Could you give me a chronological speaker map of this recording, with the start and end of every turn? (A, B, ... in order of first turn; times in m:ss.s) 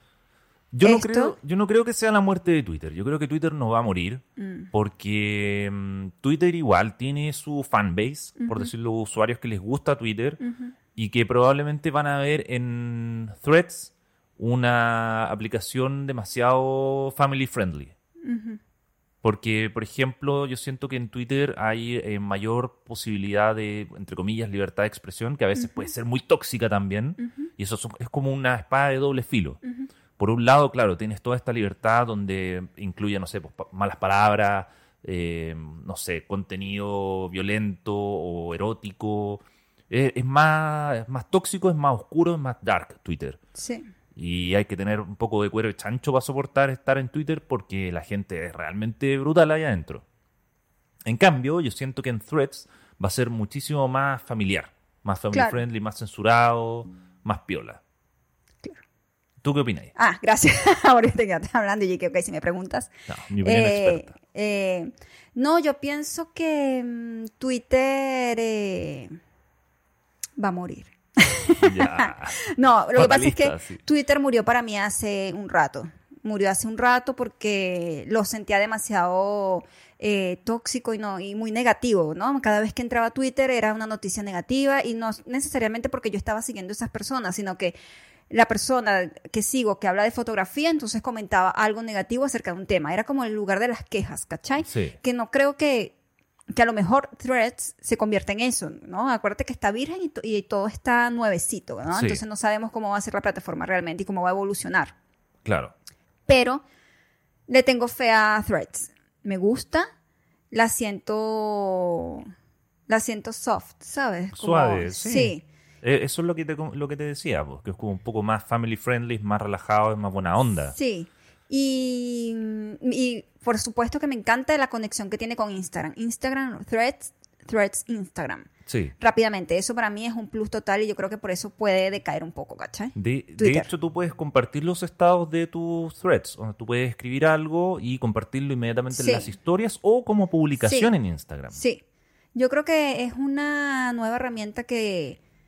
0:00.7-0:10.4 A
0:00.8-0:01.3 B
0:04.4-0:04.7 B
0:08.4-0:08.7 B
0:10.4-0:10.7 B
0:10.9-0:17.9 A
0:18.2-0:18.6 B
0:19.2-0:29.6 A
0:25.6-0:25.9 B
0:27.2-0:27.5 B
0:30.2-0:43.4 A
0:43.6-0:43.9 B
0:44.1-0:50.0 A
0:51.0-0:57.8 A
0:55.3-0:55.6 B
0:59.4-0:59.9 A
1:00.0-1:02.9 B
1:03.1-1:04.1 A
1:03.4-1:09.2 B
1:10.4-1:27.7 B
1:11.6-1:12.4 A
1:12.9-1:13.8 A
1:28.3-1:35.9 B
1:34.6-1:35.0 A
1:36.5-1:44.9 B
1:41.9-1:42.2 A
1:45.4-1:45.7 A
1:46.3-1:46.6 B
1:47.5-1:49.9 B
1:50.5-1:52.3 B
1:52.9-1:55.4 B
1:54.3-2:00.7 A
2:00.7-2:08.5 B
2:08.7-2:08.9 A
2:09.0-2:13.7 B
2:12.9-2:21.6 A
2:18.9-2:19.3 B
2:20.6-2:20.9 B
2:21.5-2:21.8 B
2:22.3-2:25.2 B